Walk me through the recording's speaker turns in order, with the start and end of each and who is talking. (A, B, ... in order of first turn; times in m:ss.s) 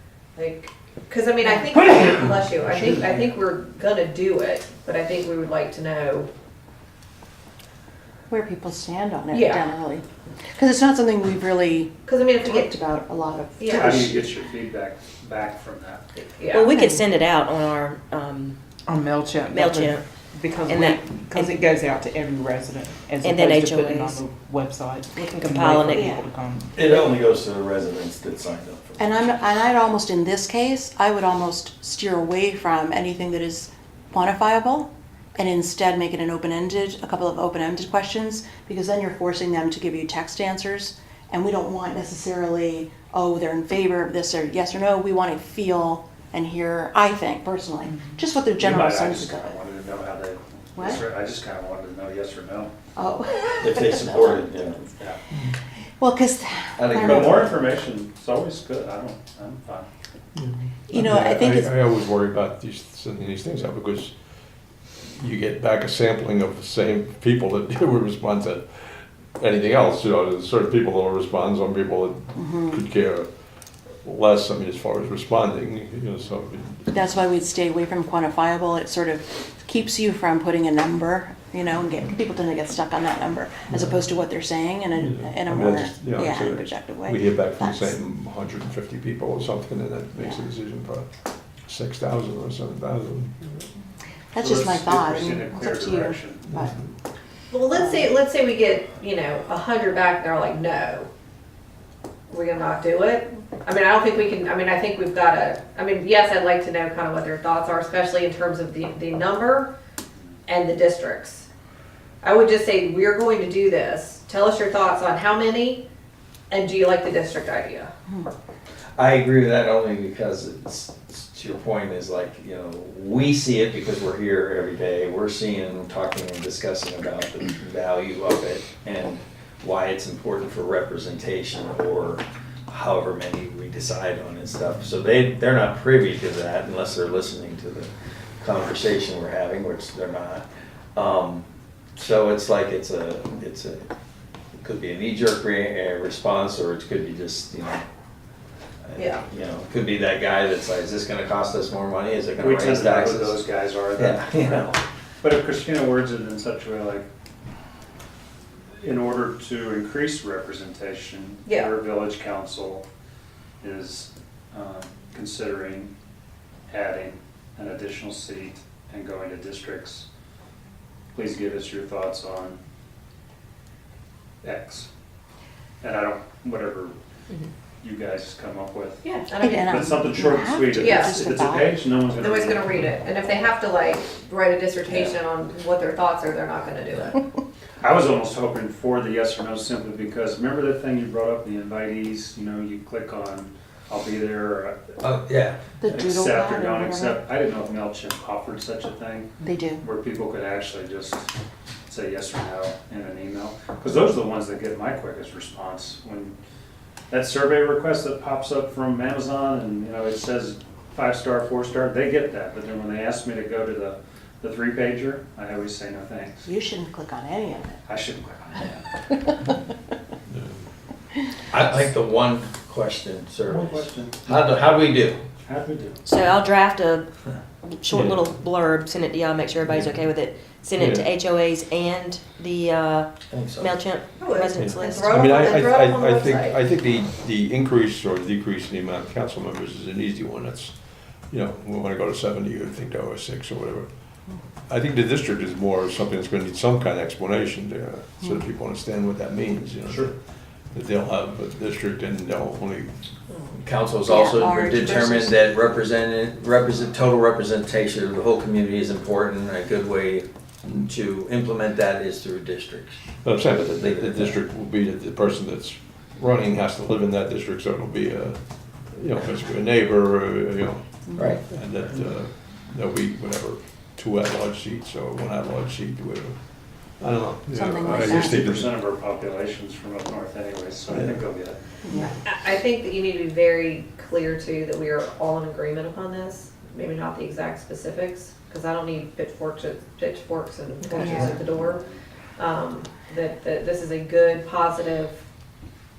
0:00.4-0:06.3 A
0:01.4-0:01.7 B
0:08.3-0:10.0 B
0:09.3-0:09.7 A
0:10.6-0:14.3 B
0:12.0-0:12.7 A
0:13.6-0:14.0 A
0:13.7-0:16.0 C
0:16.1-0:16.7 A
0:16.5-0:18.6 D
0:16.7-0:17.0 B
0:18.9-0:26.8 E
0:19.4-0:20.0 D
0:20.6-0:21.7 D
0:23.2-0:24.2 D
0:25.1-0:26.1 D
0:25.9-0:26.2 B
0:26.7-0:29.2 F
0:29.0-0:49.6 B
0:48.6-0:52.7 C
0:50.8-0:51.0 B
0:53.0-0:54.8 B
0:53.6-0:54.9 F
0:56.0-0:57.4 B
0:56.8-0:57.6 F
0:57.0-0:59.9 C
1:00.4-1:04.1 G
1:00.9-1:01.7 B
1:05.2-1:13.3 G
1:12.4-1:12.8 B
1:14.0-1:16.9 G
1:16.9-1:28.0 B
1:23.7-1:24.0 G
1:25.0-1:31.1 G
1:31.7-1:33.7 G
1:34.3-1:36.7 B
1:34.4-1:36.5 C
1:37.5-1:41.1 A
1:42.3-1:49.7 A
1:50.4-1:51.5 A
1:52.2-1:55.8 A
1:56.5-1:57.9 A
1:59.0-2:20.4 F
2:20.9-2:21.4 F
2:22.0-2:23.9 F
2:24.6-2:27.8 F
2:28.8-2:34.8 F
2:29.0-2:29.2 A
2:32.4-2:37.0 C
2:38.8-2:42.8 C
2:41.4-2:41.7 A
2:43.6-2:45.9 C
2:46.7-2:50.0 C
2:51.1-2:52.6 C
2:54.4-2:54.9 C
2:55.8-2:57.0 C
2:57.8-2:59.1 C
2:59.0-2:59.9 A
2:59.3-3:01.8 B
2:59.6-3:03.0 C
3:00.8-3:01.2 A
3:02.2-3:07.2 A
3:04.9-3:05.2 C
3:07.8-3:14.9 C
3:15.0-3:15.6 F
3:15.8-3:17.2 B
3:15.8-3:19.3 C
3:19.4-3:19.8 B
3:19.8-3:21.3 C
3:21.9-3:26.3 C
3:27.1-3:36.5 C
3:36.4-3:37.8 B
3:37.9-3:38.8 C
3:40.3-3:40.6 G
3:41.5-3:45.2 F
3:43.4-3:44.2 C
3:45.4-3:46.0 C
3:46.0-3:47.1 D
3:47.7-3:55.4 D
3:47.9-3:48.3 G
3:49.6-3:50.0 G
3:50.7-3:51.1 G
3:53.3-3:53.7 F
3:54.2-3:56.6 A
3:54.5-4:00.7 G
4:01.3-4:03.9 G
4:04.7-4:10.1 G
4:10.7-4:12.9 G
4:13.3-4:13.6 A
4:13.6-4:23.0 F
4:14.1-4:15.4 B
4:23.2-4:28.4 G
4:23.6-4:24.4 F
4:28.9-4:36.4 G
4:31.1-4:31.4 B
4:37.0-4:38.7 G
4:37.5-4:38.6 B
4:37.9-4:41.6 C
4:40.9-4:41.2 G
4:41.8-4:42.1 B
4:41.9-4:51.8 A
4:50.9-4:51.3 B
4:51.1-4:52.0 C
4:52.4-4:55.2 A